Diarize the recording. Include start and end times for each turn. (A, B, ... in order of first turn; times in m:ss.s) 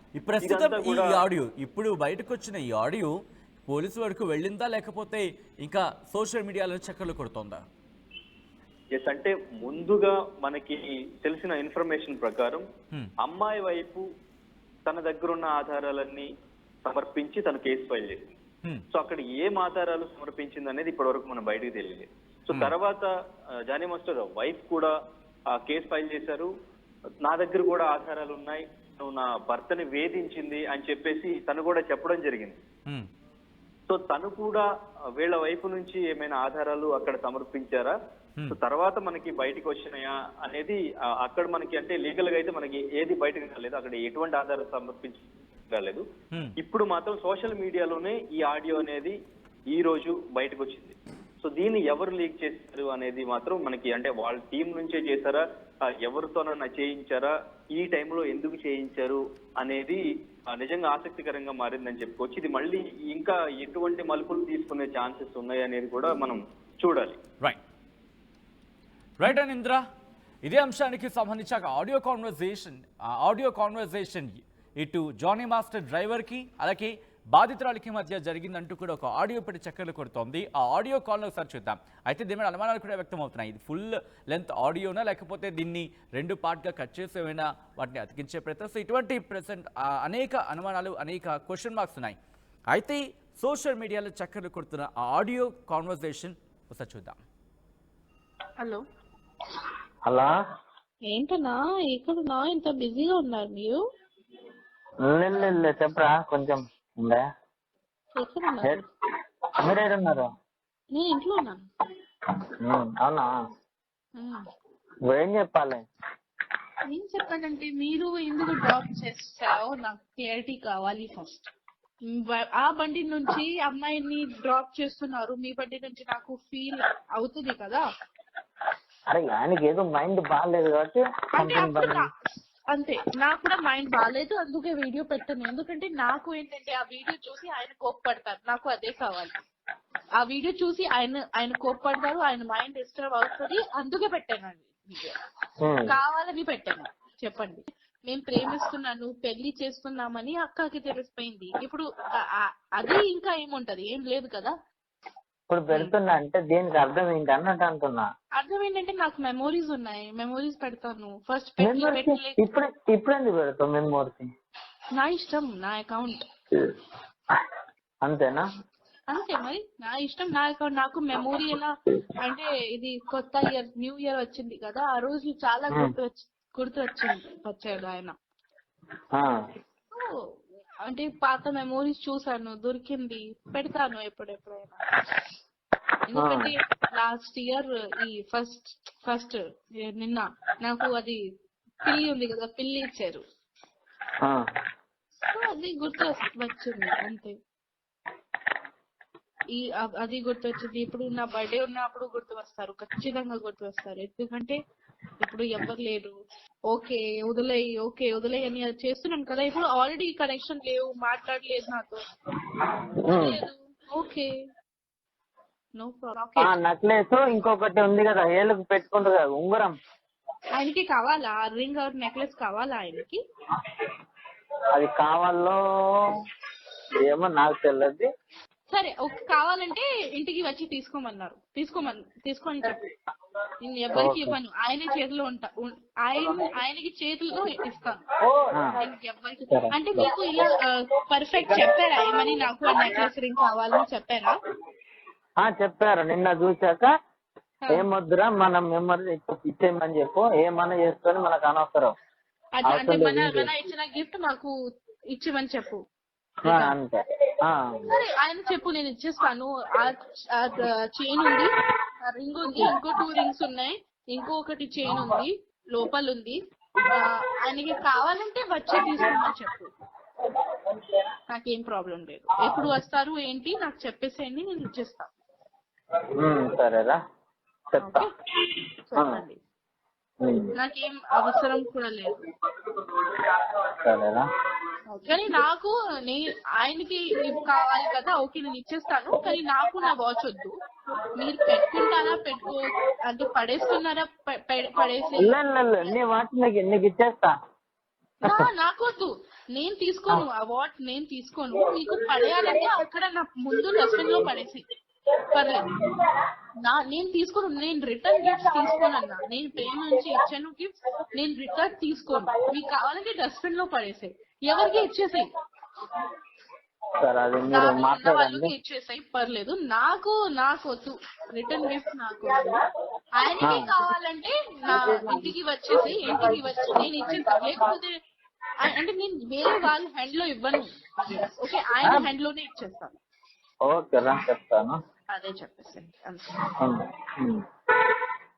0:00.2-0:03.1 A
0:00.4-0:01.2 B
0:03.7-0:07.6 A
0:08.9-0:12.6 B
0:13.2-0:14.0 B
0:14.9-0:16.3 B
0:16.8-0:18.4 B
0:18.9-0:23.1 B
0:23.7-0:24.9 B
0:25.5-0:26.5 B
0:27.2-0:32.6 B
0:33.9-0:38.0 B
0:38.5-0:46.0 B
0:46.6-0:49.2 B
0:49.7-1:07.2 B
1:09.2-1:09.8 A
1:10.4-1:32.2 A
1:32.7-1:37.2 A
1:40.1-1:40.3 C
1:41.1-1:43.8 D
1:45.1-1:47.2 C
1:48.2-1:48.8 D
1:49.6-1:50.3 C
1:50.9-1:51.6 D
1:52.6-1:53.3 C
1:54.2-1:54.4 D
1:55.1-1:55.8 C
1:56.9-2:01.5 D
2:02.1-2:07.8 D
2:09.1-2:12.1 C
2:11.4-2:12.1 D
2:12.7-2:19.3 D
2:20.2-2:25.2 D
2:25.6-2:26.0 C
2:25.9-2:31.9 D
2:32.4-2:34.5 D
2:35.5-2:38.1 C
2:38.4-2:42.4 D
2:41.6-2:44.3 C
2:45.0-2:46.2 D
2:48.0-2:48.5 C
2:49.1-2:58.1 D
3:00.9-3:04.8 D
3:06.1-3:11.2 D
3:06.2-3:06.5 C
3:11.8-3:13.2 D
3:15.3-3:17.3 D
3:19.5-3:24.6 D
3:25.2-3:26.2 D
3:26.7-3:32.0 D
3:33.1-3:33.4 C
3:33.1-3:34.3 D
3:35.8-3:36.5 D
3:36.4-3:39.8 C
3:40.6-3:43.2 D
3:44.7-3:45.6 C
3:47.0-3:48.1 C
3:48.7-3:52.8 D
3:53.6-3:58.0 D
3:54.0-3:54.4 C
3:58.5-3:58.8 C
3:58.8-4:04.3 D
3:59.5-4:00.1 C
4:05.4-4:06.9 C
4:07.7-4:11.9 C
4:12.6-4:14.5 D
4:12.6-4:13.5 C
4:15.2-4:15.8 D
4:16.4-4:17.7 C
4:16.5-4:16.7 D
4:17.9-4:21.5 D
4:22.0-4:26.4 D
4:27.0-4:29.7 D
4:31.3-4:35.1 D
4:36.2-4:37.0 C
4:37.7-4:38.0 C
4:37.8-4:38.1 D
4:38.9-4:39.4 D
4:39.0-4:39.2 C
4:40.2-4:40.5 C
4:40.6-4:42.2 D
4:42.9-4:43.2 C
4:43.7-4:44.2 C
4:44.9-4:50.6 D
4:51.2-4:56.0 D
4:55.2-4:57.3 C
4:58.2-5:04.6 D
5:05.3-5:05.7 D
5:06.6-5:15.3 D
5:17.0-5:18.5 C
5:17.5-5:22.5 D
5:23.2-5:27.9 D
5:23.4-5:23.7 C
5:28.6-5:33.0 D
5:33.7-5:34.8 C
5:35.1-5:36.4 D
5:36.6-5:37.4 C